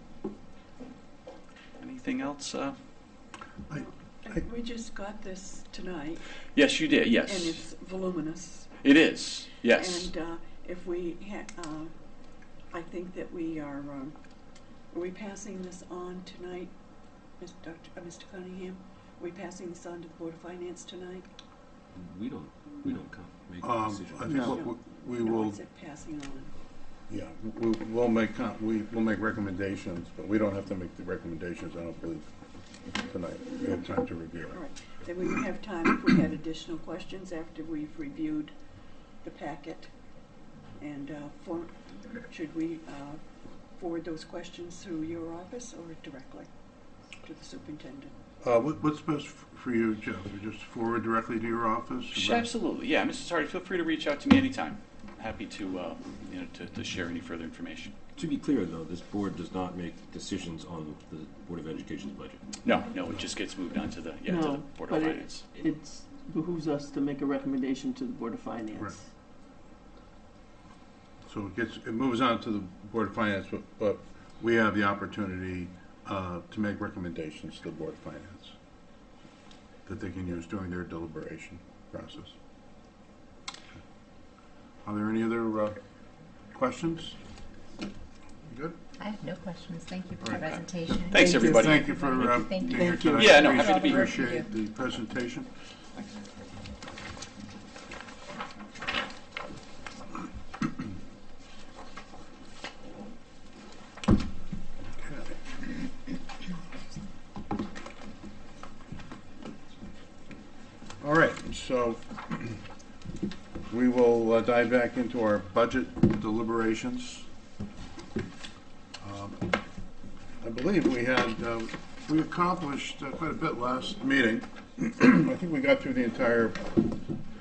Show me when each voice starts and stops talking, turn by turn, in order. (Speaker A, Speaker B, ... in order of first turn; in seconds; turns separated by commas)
Speaker A: 1.8-2.8, Speaker B: 3.7-6.2, Speaker A: 6.5-7.7, Speaker B: 7.2-8.7, Speaker A: 8.8-10.1, Speaker B: 9.7-11.9, Speaker B: 12.7-14.2, Speaker B: 14.9-16.7, Speaker B: 17.4-21.3, Speaker C: 21.9-24.7, Speaker D: 23.6-25.6, Speaker B: 24.5-26.5, Speaker D: 27.1-32.3, Speaker D: 33.0-34.6, Speaker B: 34.5-38.5, Speaker B: 39.2-39.9, Speaker B: 40.8-41.7, Speaker B: 42.3-43.2, Speaker B: 43.8-46.5, Speaker B: 47.2-48.1, Speaker D: 48.4-52.5, Speaker A: 52.1-57.9, Speaker C: 58.2-62.4, Speaker A: 62.6-65.5, Speaker E: 64.3-69.0, Speaker D: 71.3-78.5, Speaker D: 79.9-82.3, Speaker D: 84.8-85.8, Speaker D: 86.5-87.2, Speaker D: 88.5-88.8, Speaker F: 89.0-94.5, Speaker D: 90.2-95.5, Speaker E: 91.1-91.8, Speaker A: 91.1-92.4, Speaker E: 92.5-93.4, Speaker A: 93.2-94.1, Speaker D: 105.0-105.4, Speaker D: 111.0-112.6, Speaker D: 113.7-117.3, Speaker D: 119.0-119.4, Speaker D: 120.4-126.8